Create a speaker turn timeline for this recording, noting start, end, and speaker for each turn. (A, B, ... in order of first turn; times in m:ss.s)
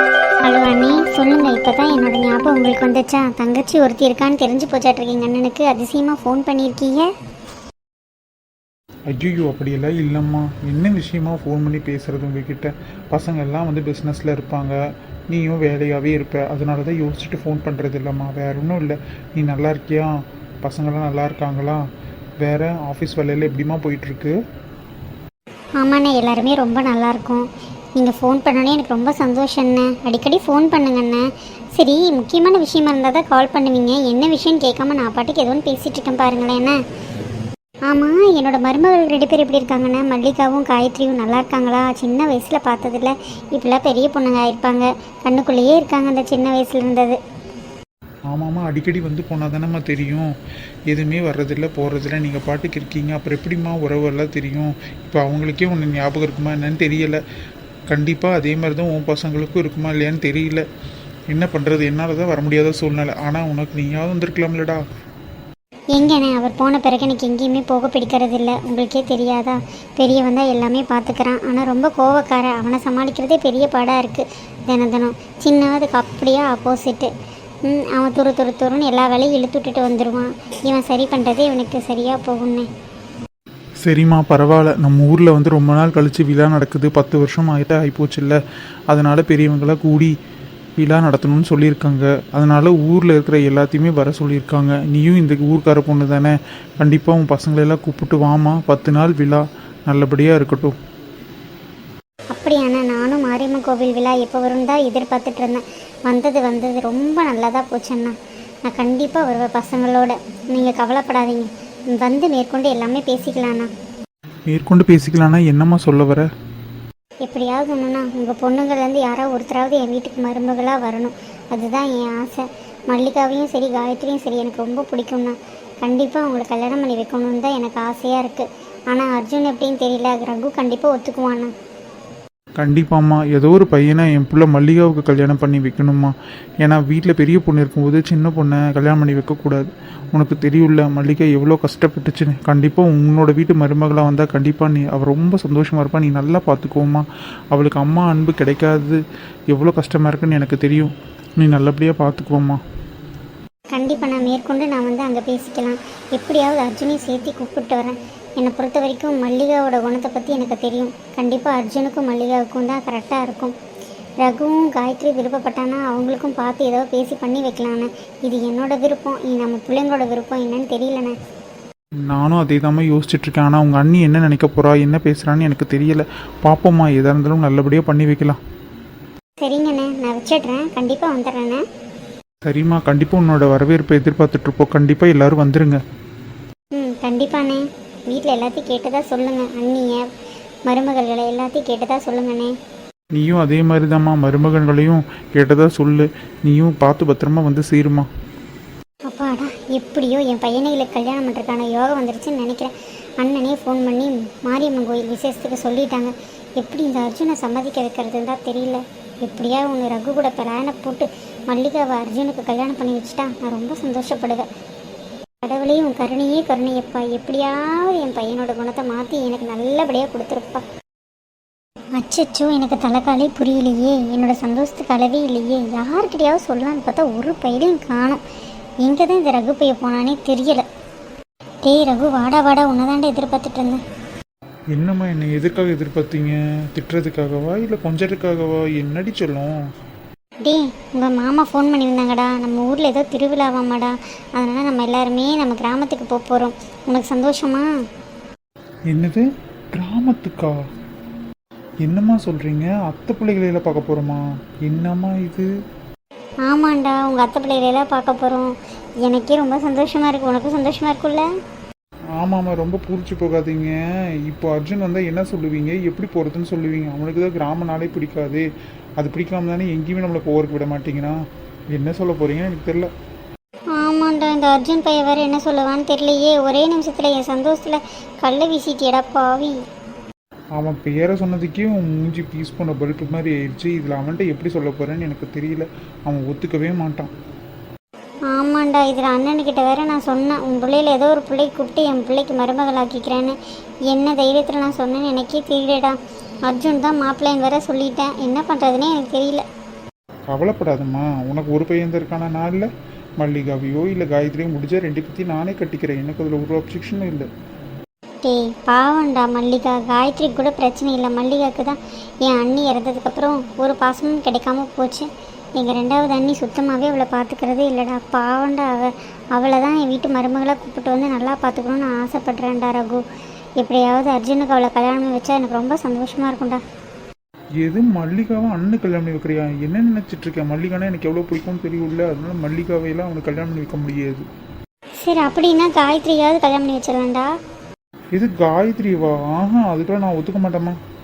0:00.4-0:07.1 A
0:09.1-0:14.8 B
0:15.3-0:20.1 B
0:20.6-0:21.8 B
0:22.4-0:24.4 B
0:25.8-0:36.8 A
0:37.9-0:47.2 A
0:48.3-0:50.3 B
0:50.9-0:57.2 B
0:57.9-1:00.6 B
1:01.3-1:04.8 B
1:05.9-1:17.1 A
1:17.6-1:22.7 A
1:23.8-1:28.4 B
1:28.9-1:30.1 B
1:30.8-1:40.8 B
1:42.3-1:48.1 A
1:48.7-1:53.7 A
1:54.5-1:56.3 B
1:57.2-2:11.5 A
2:12.6-2:29.0 B
2:29.5-2:32.6 B
2:33.7-2:43.5 A
2:44.2-2:51.2 A
2:52.1-2:58.4 B
2:59.4-3:01.6 A
3:02.4-3:05.8 B
3:06.8-3:10.0 A
3:10.7-3:12.5 A
3:13.1-3:18.1 B
3:19.1-3:34.4 A
3:35.4-3:40.6 A
3:42.0-3:48.2 A
3:48.8-3:50.6 A
3:51.6-3:53.8 A
3:54.7-3:59.5 B
4:00.4-4:07.7 A
4:08.9-4:10.6 B
4:11.8-4:15.5 B
4:16.4-4:21.3 A
4:22.2-4:28.4 B
4:29.0-4:31.2 B
4:31.7-4:32.9 B
4:33.8-4:39.6 A
4:40.6-4:47.1 B
4:48.3-4:53.4 A
4:53.9-4:56.0 A
4:56.5-4:59.4 A
5:00.3-5:02.7 B
5:03.2-5:07.3 B
5:08.2-5:15.1 A
5:15.6-5:23.0 A
5:23.6-5:26.6 A
5:27.6-5:34.2 B
5:35.0-5:37.3 A
5:38.1-5:40.8 B